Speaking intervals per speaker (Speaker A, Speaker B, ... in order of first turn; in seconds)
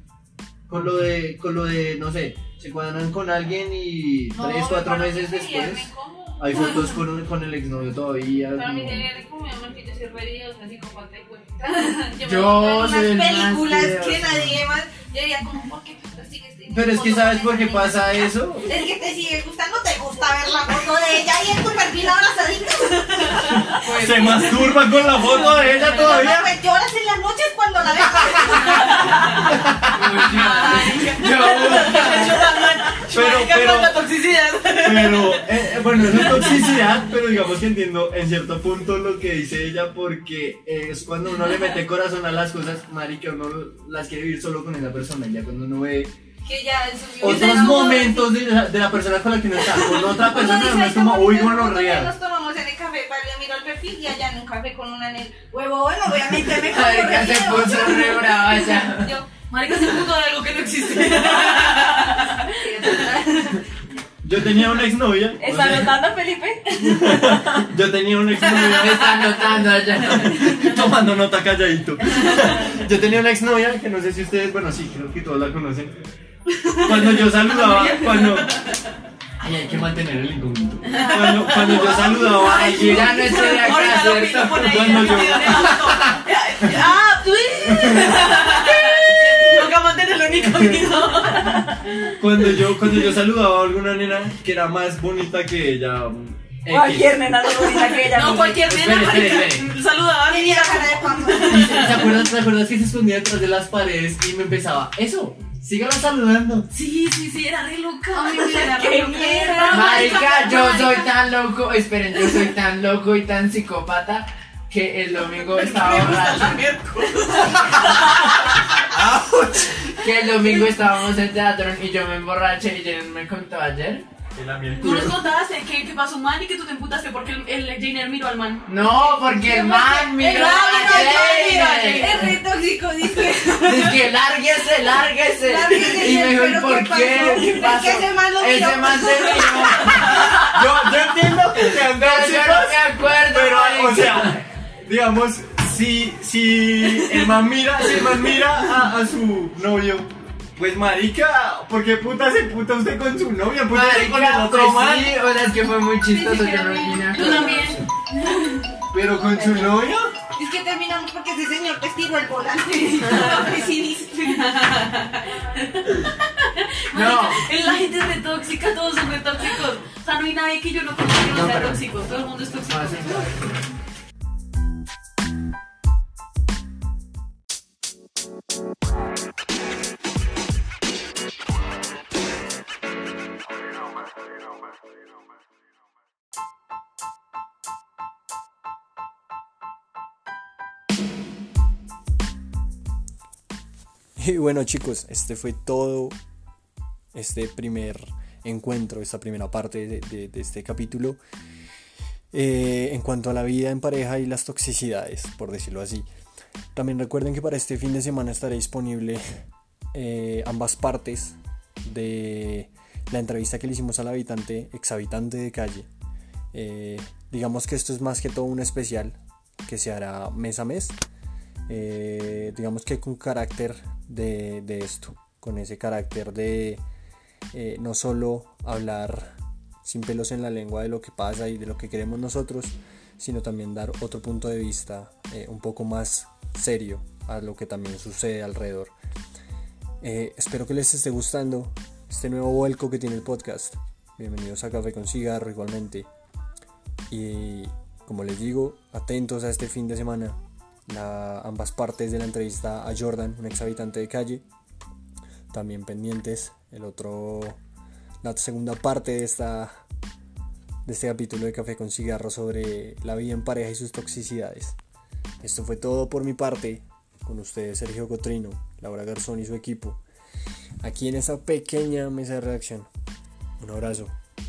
Speaker A: 0.7-9.1, 16.7-18.7, 23.5-26.5, 28.2-30.2, 31.3-32.2, 33.1-34.0, 34.8-46.1, 47.2-52.1, 64.2-65.9, 66.8-69.4, 70.0-76.0, 76.8-78.5, 79.4-83.5, 84.6-86.8, 87.7-88.3, 90.3-90.9, 92.2-97.3, 98.7-99.7, 101.4-106.7, 118.8-119.8, 124.3-125.2, 140.4-155.2, 158.9-160.1
Speaker B: 0.7-1.1, 12.2-14.6, 23.8-24.7, 29.8-32.4, 56.4-59.1, 68.7-70.6, 82.7-85.3, 109.7-116.7, 120.0-124.0, 128.7-132.4, 133.6-140.2, 141.7-144.4, 153.7-157.8, 166.9-167.5, 171.3-171.8, 172.6-173.7
Speaker C: 4.3-7.0, 8.5-23.8, 24.5-29.2, 46.4-48.3, 50.0-59.9, 60.7-63.7, 82.3-82.7, 88.3-89.3, 100.2-102.1, 108.1-110.8, 129.2-134.1, 135.4-140.5, 156.1-157.7, 160.3-164.7
Speaker D: 23.5-25.8, 28.7-29.5, 30.2-36.9, 59.4-63.5, 72.2-72.8, 76.5-78.9, 80.8-92.1, 97.6-102.1, 106.7-111.1, 115.4-118.8, 124.8-128.9, 130.2-132.3, 139.8-140.6, 157.1-158.8, 162.8-173.4
Speaker E: 65.4-67.6, 96.7-98.6
Speaker F: 194.2-196.2, 197.1-201.2, 202.3-206.1, 206.7-209.2, 209.9-215.9, 216.5-220.9, 221.7-226.8, 227.5-238.9, 240.0-246.1, 247.1-254.4, 255.5-257.6, 258.2-259.8, 260.8-264.8, 265.4-270.0, 270.8-272.9, 273.6-274.1